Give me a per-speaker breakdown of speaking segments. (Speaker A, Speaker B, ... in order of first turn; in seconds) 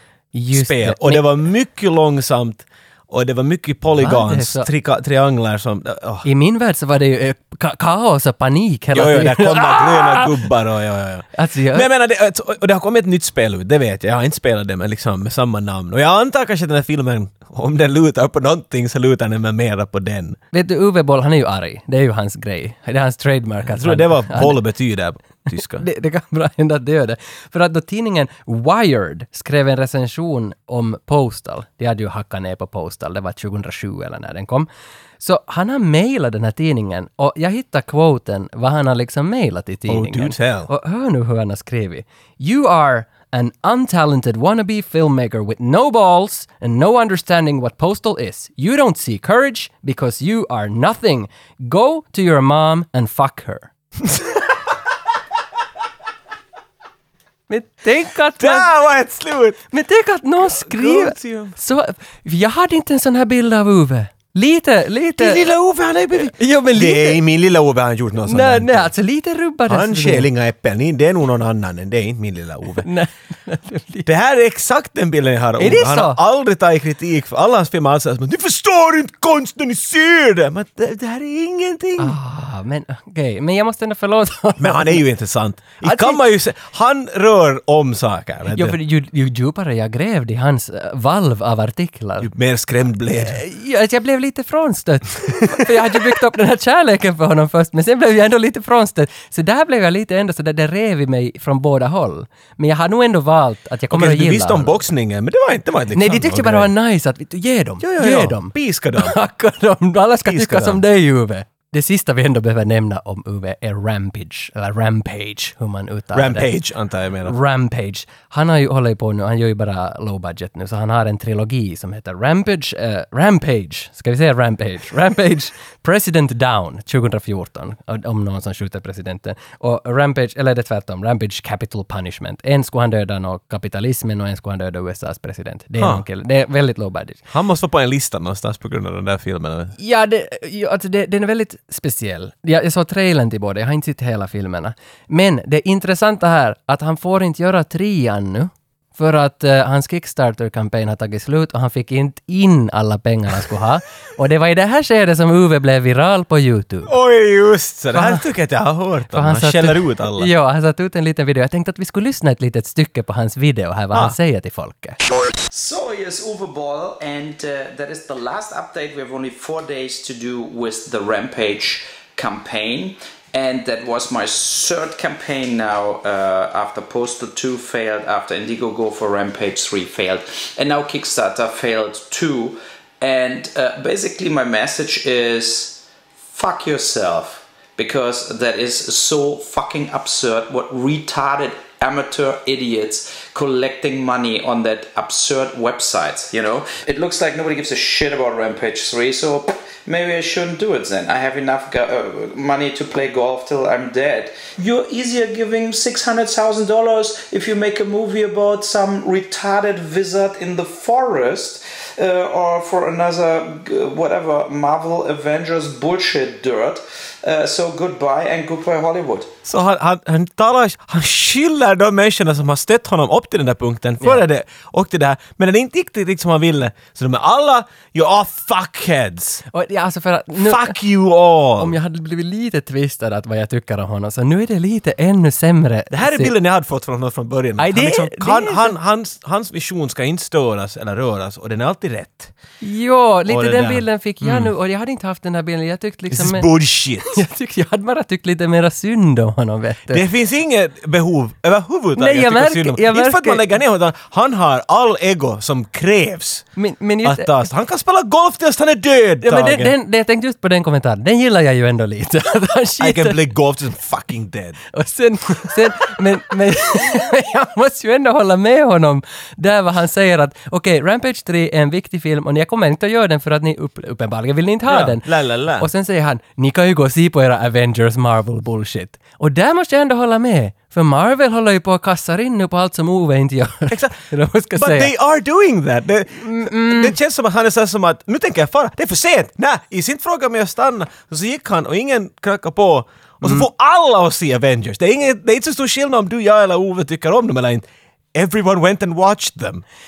Speaker A: 0.3-1.3, 4.0-4.7, 6.2-10.4, 11.3-11.9, 20.5-24.6, 25.7-34.7, 35.2-53.7, 57.5-58.7, 59.7-65.5, 66.1-67.2, 68.2-70.3, 72.8-74.1, 75.6-76.2, 82.0-85.0, 85.8-86.2, 88.5-92.3, 93.1-104.8, 105.9-116.5, 117.2-137.2, 139.8-156.9, 157.9-158.3, 159.1-165.0, 229.5-230.8, 231.6-236.3, 237.6-238.8, 242.6-246.5, 247.0-250.0, 251.9-253.5, 256.6-257.3, 259.2-263.2, 264.7-284.9, 286.1-286.9, 293.2-293.5
Speaker B: 0.5-6.3, 8.9-20.4, 23.6-25.8, 39.9-40.7, 54.0-54.5, 58.4-59.6, 60.5-61.5, 65.2-68.9, 69.7-72.8, 74.0-82.1, 84.6-88.8, 92.2-93.4, 95.6-96.0, 103.9-106.7, 107.8-109.2, 110.2-110.8, 116.1-117.4, 135.8-136.0, 137.3-139.7, 156.8-160.3, 219.4-229.4, 230.4-231.7, 235.9-242.3, 243.3-244.5, 246.1-247.2, 249.9-256.4, 257.0-259.7, 262.8-264.6, 274.7-275.7, 283.7-284.0, 284.5-299.6
Speaker C: 165.5-219.3